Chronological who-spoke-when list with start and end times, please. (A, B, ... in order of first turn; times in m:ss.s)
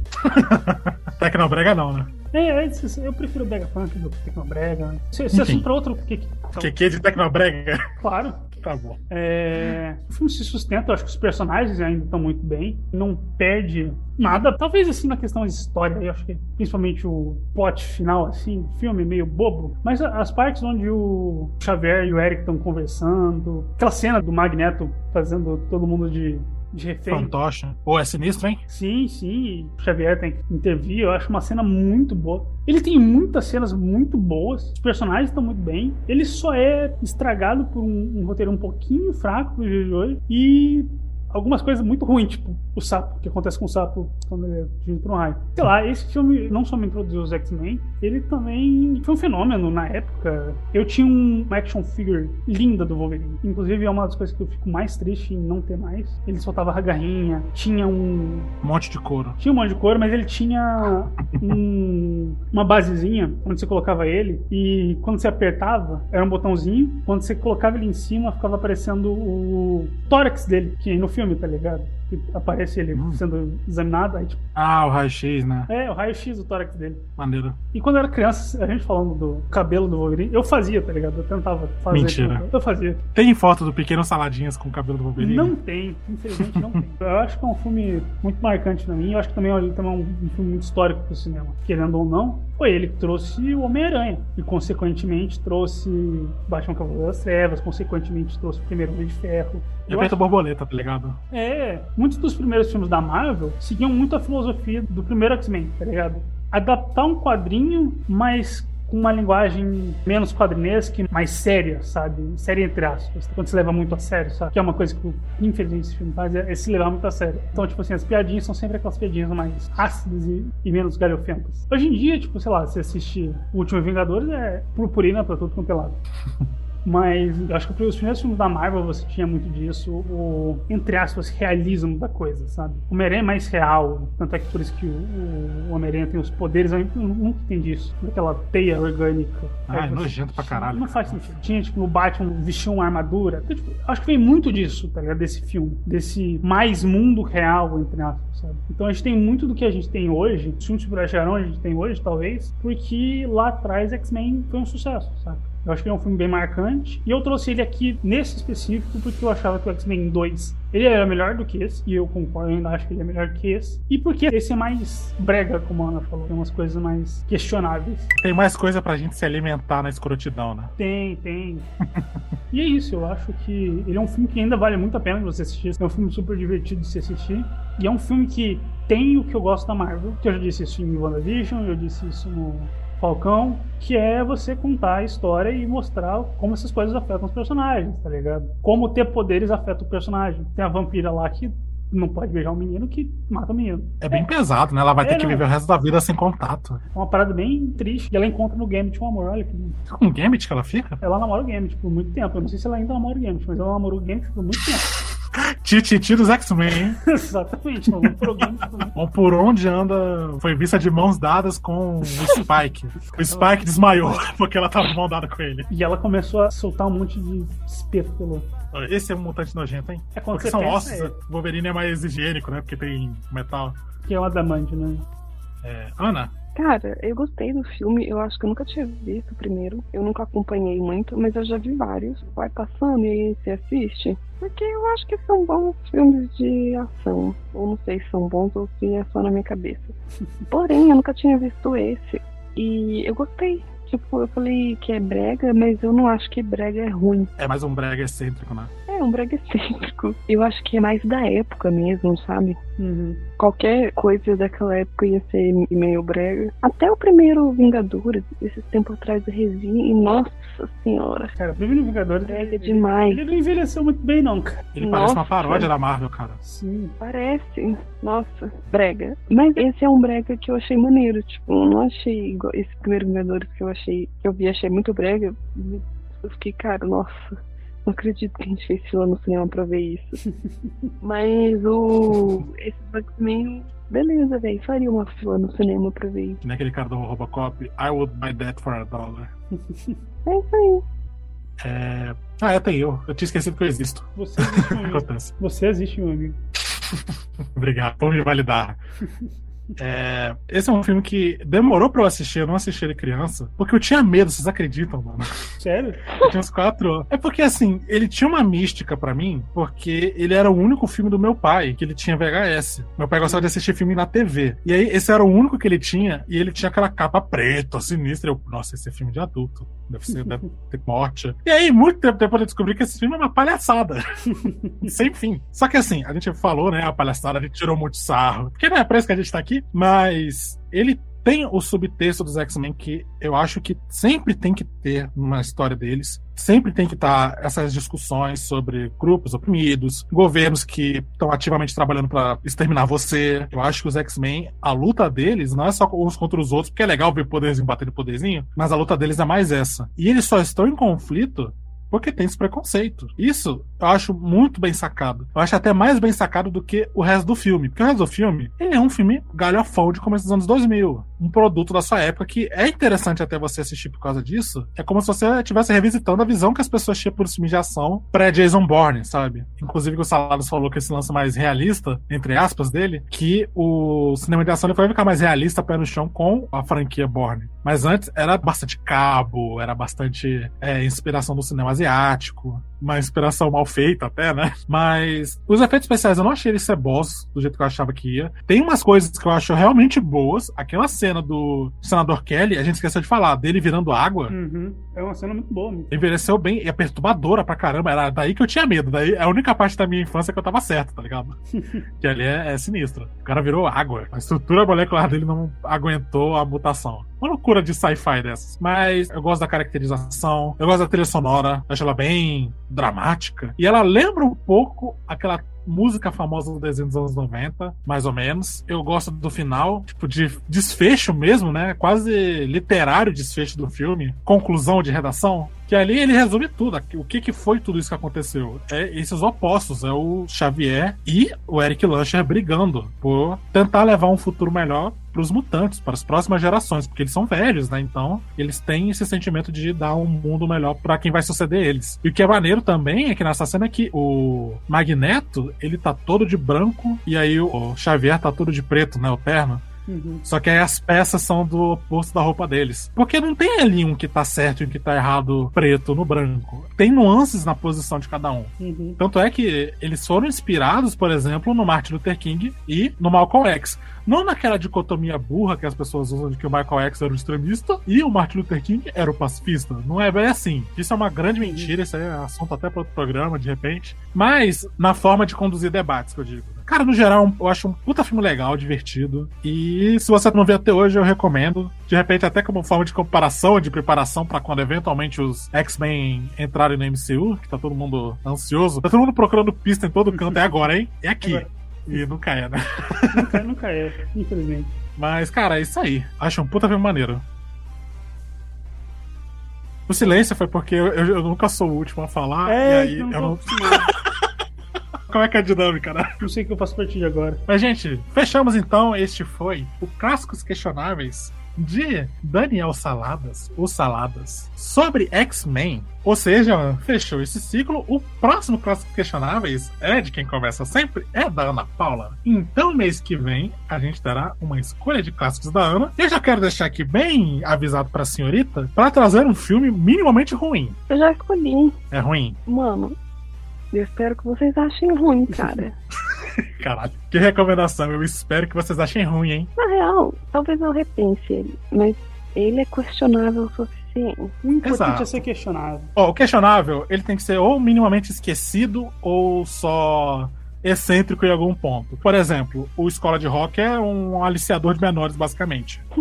0:00.2-0:02.1 A
0:02.3-0:06.7 B
0:05.3-0:05.7 A
0:06.6-0:07.8 A
0:08.0-0:08.4 B
0:08.6-0:09.0 A
0:09.1-0:27.3 B
0:27.1-0:28.6 A
0:28.7-0:58.5 B
0:58.6-0:59.4 A
0:59.4-1:14.4 B
1:12.9-1:13.2 A
1:14.5-1:15.7 A
1:15.7-1:17.0 B
1:17.2-1:17.6 A
1:17.7-1:23.0 B
1:21.9-1:22.4 A
1:23.1-1:25.6 A
1:25.2-1:40.2 B
1:26.4-1:26.8 A
1:39.9-1:41.2 A
1:41.3-2:06.0 B
2:06.8-2:48.1 B
2:19.7-2:21.3 A
2:48.2-2:50.7 A
2:50.8-2:51.7 B
2:52.5-3:14.3 B
3:14.0-3:16.8 A
3:15.0-3:15.4 B
3:16.9-3:19.8 B
3:19.9-3:21.0 A
3:21.0-3:24.9 B
3:25.3-3:27.0 A
3:27.0-3:28.9 B
3:28.8-3:35.7 A
3:33.0-3:34.2 B
3:35.7-3:38.5 B
3:38.7-3:43.8 A
3:40.1-3:41.1 B
3:44.0-3:45.0 B
3:45.6-3:46.3 A
3:46.5-4:00.0 C
4:00.5-4:07.3 C
4:07.4-4:08.7 A
4:08.9-4:12.6 C
4:12.8-4:13.2 B
4:13.4-4:21.3 C
4:21.4-4:24.6 B
4:22.2-4:23.2 C
4:24.7-4:26.4 A
4:24.8-4:25.7 C
4:26.4-4:26.9 B
4:27.0-4:40.2 C
4:40.3-4:40.8 B
4:41.0-4:46.4 C
4:46.4-4:49.3 A
4:49.5-4:50.0 B
4:50.2-4:50.8 C
4:51.6-4:55.3 A
4:54.1-4:56.4 B
4:56.9-4:58.8 A
4:59.8-5:05.4 A
5:05.6-5:06.2 B
5:06.2-5:24.0 A
5:20.1-5:20.5 B
5:24.3-5:25.0 B
5:24.8-6:34.4 A
6:34.3-6:36.0 B
6:35.9-6:41.4 A
6:41.5-6:41.8 B
6:42.0-7:29.6 A
7:29.9-7:30.2 B
7:30.2-8:13.4 A
7:38.6-7:39.0 B
7:51.4-7:51.7 B
8:10.1-8:10.4 B
8:13.1-8:14.7 B
8:15.0-8:17.2 A
8:19.9-8:24.0 A
8:22.4-8:23.9 B
8:25.1-8:26.2 A
8:26.2-8:27.4 B
8:27.5-8:50.8 A
8:50.9-8:51.8 C
8:51.9-8:52.4 A
8:52.5-8:52.9 C
8:53.7-8:55.8 C
8:56.4-8:59.5 A
8:59.6-9:04.3 C
9:04.4-9:05.9 B
9:04.6-9:05.2 A
9:06.0-9:15.8 A